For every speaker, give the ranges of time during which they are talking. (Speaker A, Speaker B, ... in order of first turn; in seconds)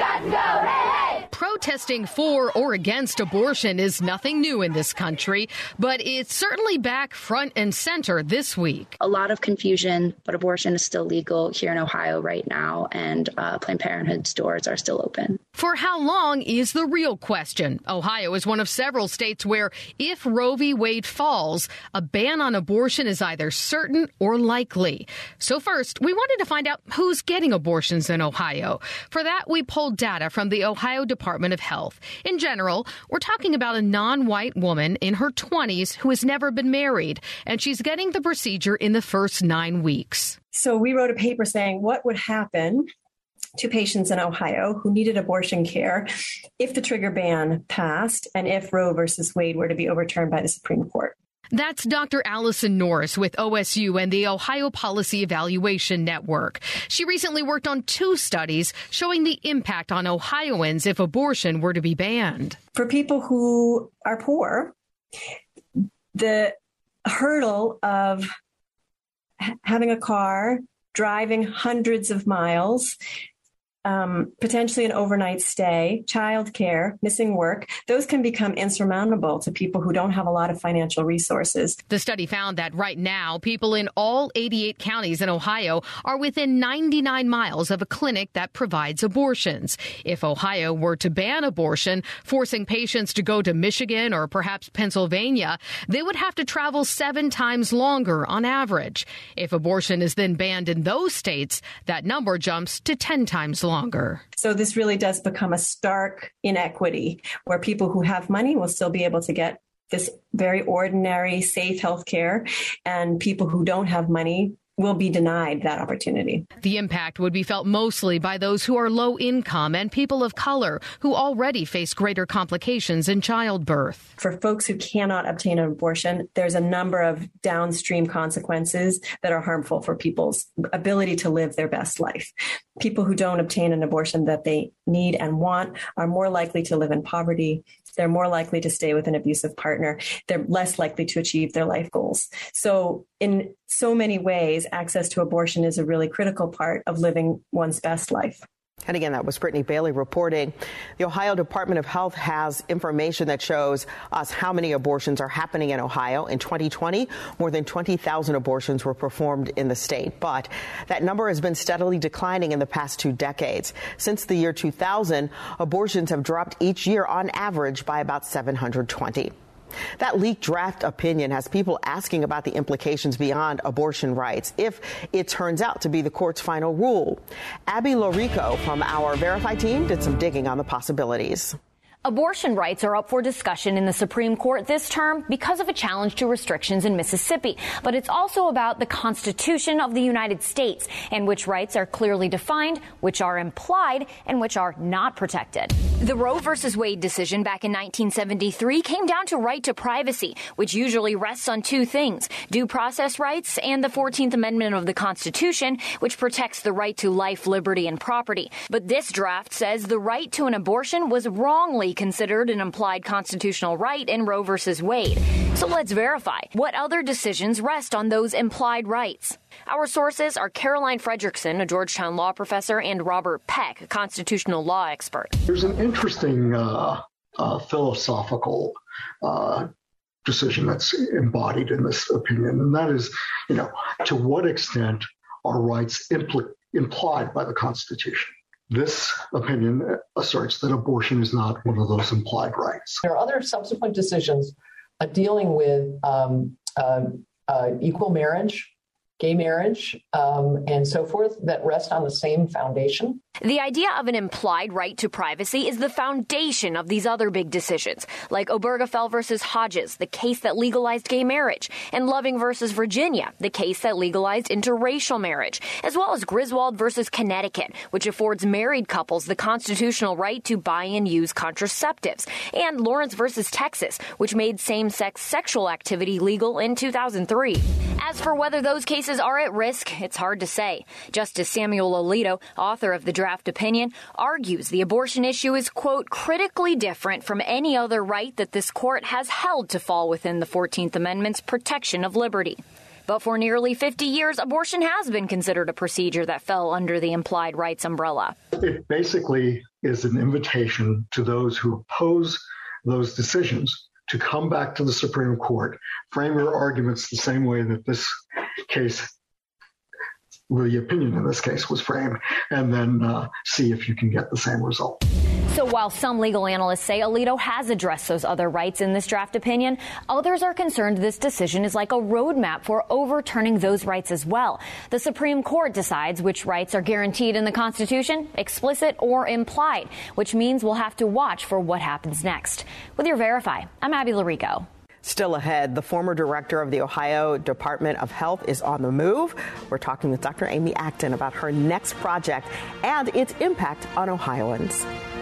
Speaker A: 1.3-8.9, 15.5-40.4, 51.5-62.6, 81.9-104.2, 116.6-124.1
Speaker B: 9.0-15.4
Speaker C: 40.5-42.9, 43.6-51.1, 62.7-64.7, 66.1-66.5, 67.0-68.3, 69.4-73.0, 73.8-81.8, 104.4-116.5, 124.2-148.4
Speaker D: 148.8-169.3, 170.0-181.6, 335.0-344.9
Speaker E: 182.0-225.4, 253.4-298.4, 315.5-334.7
Speaker F: 225.5-229.7, 230.2-243.1, 298.5-309.1, 310.5-315.0
Speaker G: 243.1-253.2